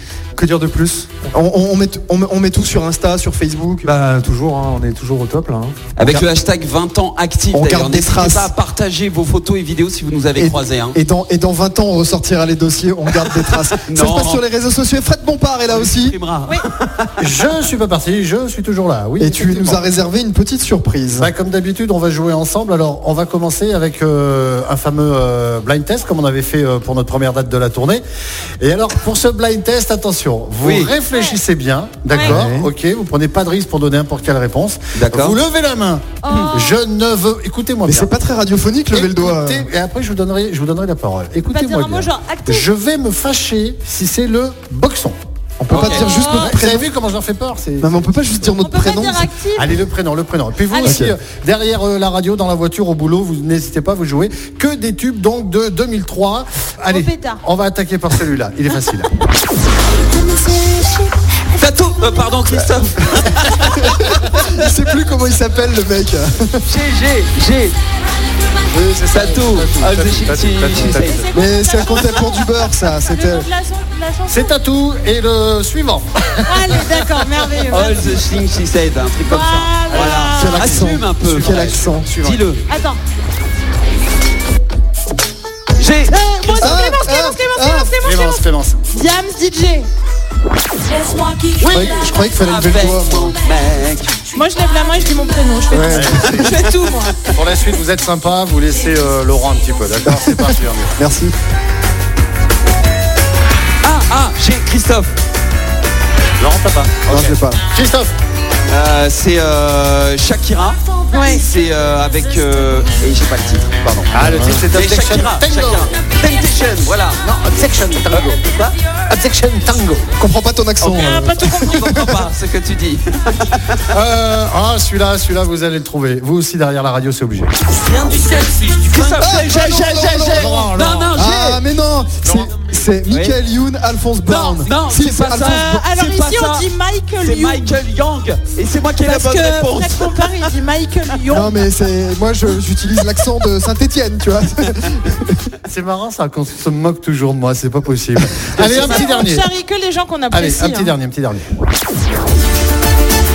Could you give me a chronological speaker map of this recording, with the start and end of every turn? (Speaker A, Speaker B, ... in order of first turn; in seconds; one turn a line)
Speaker A: 0.3-1.3
Speaker B: 1.3-3.9
Speaker A: 3.8-5.8
Speaker C: 6.0-11.0
Speaker B: 7.5-8.5
Speaker B: 10.3-16.2
Speaker C: 13.2-14.4
Speaker C: 15.7-17.5
Speaker D: 17.2-19.9
Speaker B: 19.2-21.3
Speaker D: 21.1-28.0
Speaker D: 28.6-38.1
Speaker C: 30.6-30.9
Speaker E: 31.1-31.4
Speaker E: 32.1-32.4
Speaker B: 32.2-32.7
Speaker C: 35.0-35.4
Speaker E: 36.2-36.8
Speaker B: 37.9-39.7
Speaker D: 38.9-45.2
Speaker E: 41.4-42.7
Speaker B: 45.6-46.9
Speaker C: 45.7-46.1
Speaker D: 45.7-48.1
Speaker E: 46.0-46.6
Speaker B: 47.8-49.3
Speaker E: 48.6-49.8
Speaker D: 49.5-59.1
Speaker E: 50.7-51.0
Speaker B: 50.8-51.1
Speaker E: 56.9-57.4
Speaker C: 61.5-64.5
Speaker B: 63.6-66.6
Speaker C: 66.6-67.8
Speaker D: 68.7-71.4
Speaker C: 69.1-71.2
Speaker E: 71.0-74.5
Speaker B: 71.3-73.5
Speaker D: 74.3-77.0
Speaker E: 76.4-78.2
Speaker C: 77.2-82.6
Speaker E: 79.2-80.6
Speaker D: 79.9-82.5
Speaker B: 80.3-82.1
Speaker E: 82.7-83.0
Speaker C: 85.8-86.9
Speaker E: 86.0-89.9
Speaker B: 86.6-87.9
Speaker D: 88.0-88.8
Speaker C: 90.9-94.2
Speaker E: 91.6-91.9
Speaker B: 91.7-93.4
Speaker E: 94.3-97.2
Speaker B: 95.7-96.5
Speaker D: 95.7-96.6
Speaker C: 96.3-96.8
Speaker D: 97.3-100.9
Speaker B: 100.0-101.3
Speaker C: 103.8-105.1
Speaker D: 106.4-108.1
Speaker B: 107.1-107.6
Speaker C: 108.7-114.1
Speaker E: 111.1-111.4
Speaker D: 114.1-115.9
Speaker B: 114.2-114.6
Speaker C: 114.7-117.2
Speaker D: 117.2-118.5
Speaker C: 118.1-118.8
Speaker D: 119.0-120.1
Speaker B: 120.2-122.1
Speaker C: 120.8-123.8
Speaker E: 120.9-122.1
Speaker D: 123.9-127.5
Speaker C: 127.7-131.6
Speaker B: 129.1-135.8
Speaker D: 130.1-131.1
Speaker C: 133.1-133.4
Speaker C: 134.2-140.5
Speaker E: 135.4-137.8
Speaker E: 139.0-141.6
Speaker B: 141.3-145.4
Speaker D: 145.7-149.5
Speaker C: 148.5-149.1
Speaker E: 148.6-150.9
Speaker D: 150.3-151.4